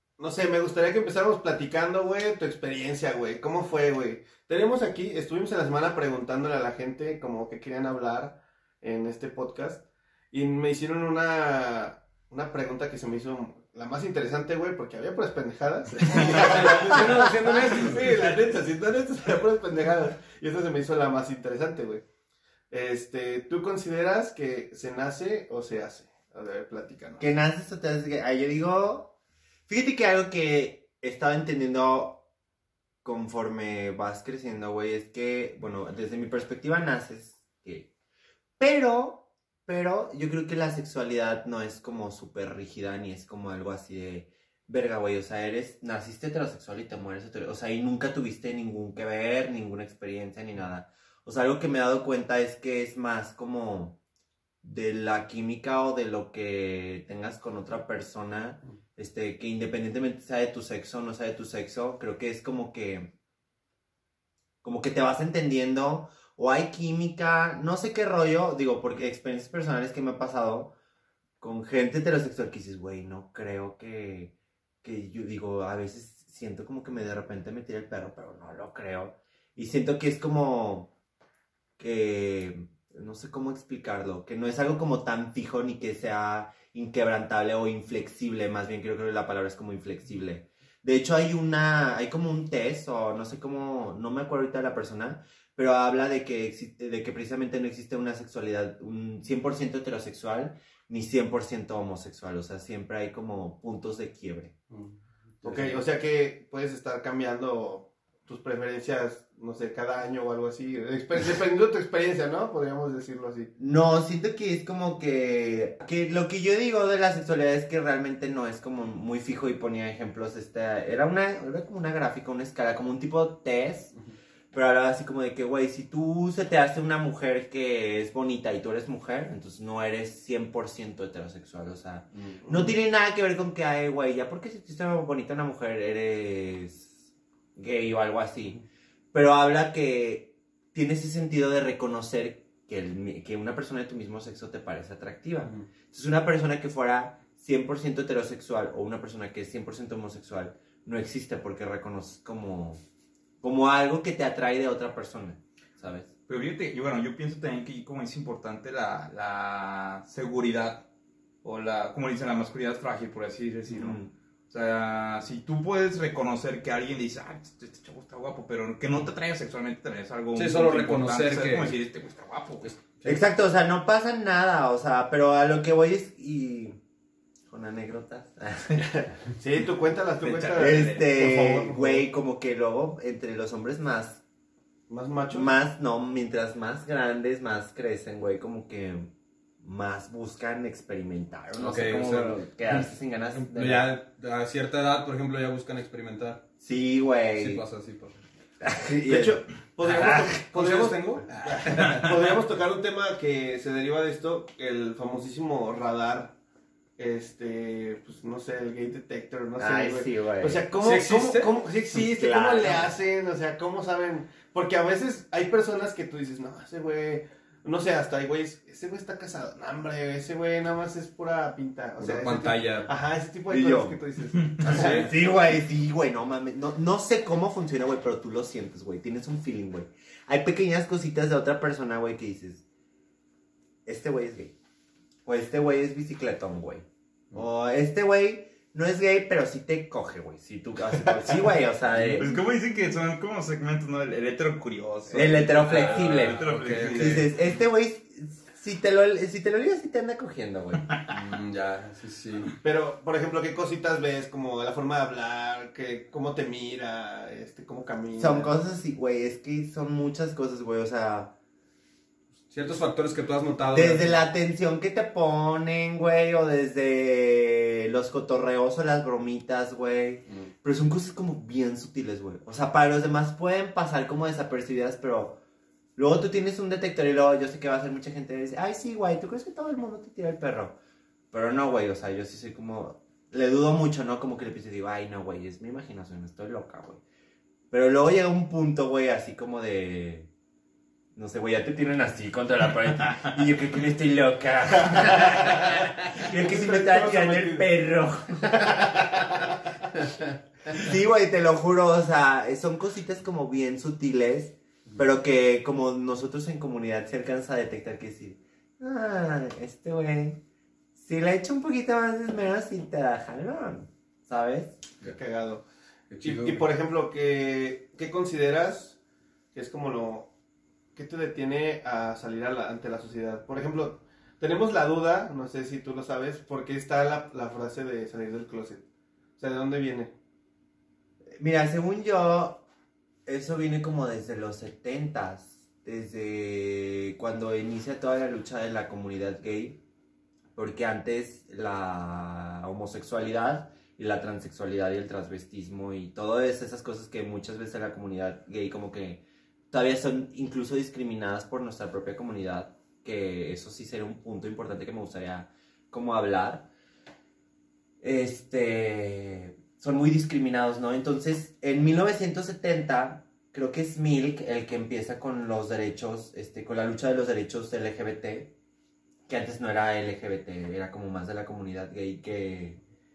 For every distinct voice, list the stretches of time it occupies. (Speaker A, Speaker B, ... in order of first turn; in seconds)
Speaker A: 0.2-22.0, 22.7-27.3, 105.4-113.5, 179.3-182.0, 184.9-185.5, 199.1-201.1, 201.6-206.3, 207.0-225.1, 252.6-258.5, 296.2-297.6, 315.1-315.6, 316.2-319.0, 319.5-320.3, 320.9-328.8, 329.4-330.1
Speaker B: 16.1-18.2, 132.1-132.4, 145.4-145.7, 170.3-171.7, 172.6-173.2, 191.6-196.4, 197.3-198.2, 200.5-202.1, 210.8-211.5, 222.0-222.9, 224.6-225.1, 241.9-242.3, 245.1-247.3, 251.1-252.5, 262.5-264.2, 316.1-316.7
Speaker C: 27.2-29.1, 29.7-32.2, 33.0-37.9, 38.6-54.0, 54.6-63.1, 64.6-70.7, 71.4-80.9, 81.8-104.5, 105.4-105.8, 113.6-123.9, 124.5-137.0, 137.6-138.6, 139.1-152.8, 153.4-156.1, 163.7-164.1, 173.0-176.8, 177.5-178.9, 180.6-184.2, 185.3-189.1, 189.6-193.9, 196.6-197.6, 198.6-200.4, 201.7-202.0, 209.6-210.6, 211.9-212.9, 223.5-224.0, 224.7-232.6, 233.8-234.5, 235.2-242.4, 245.1-250.8, 258.2-261.3, 263.7-275.4, 275.9-280.8, 281.3-287.0, 287.7-290.3, 291.1-299.0, 300.7-310.4, 310.9-314.8, 331.4-332.6, 333.2-339.8, 340.6-356.7, 358.0-368.5, 369.3-372.8
Speaker D: 156.3-160.8, 161.4-172.7, 180.2-181.1, 242.2-247.3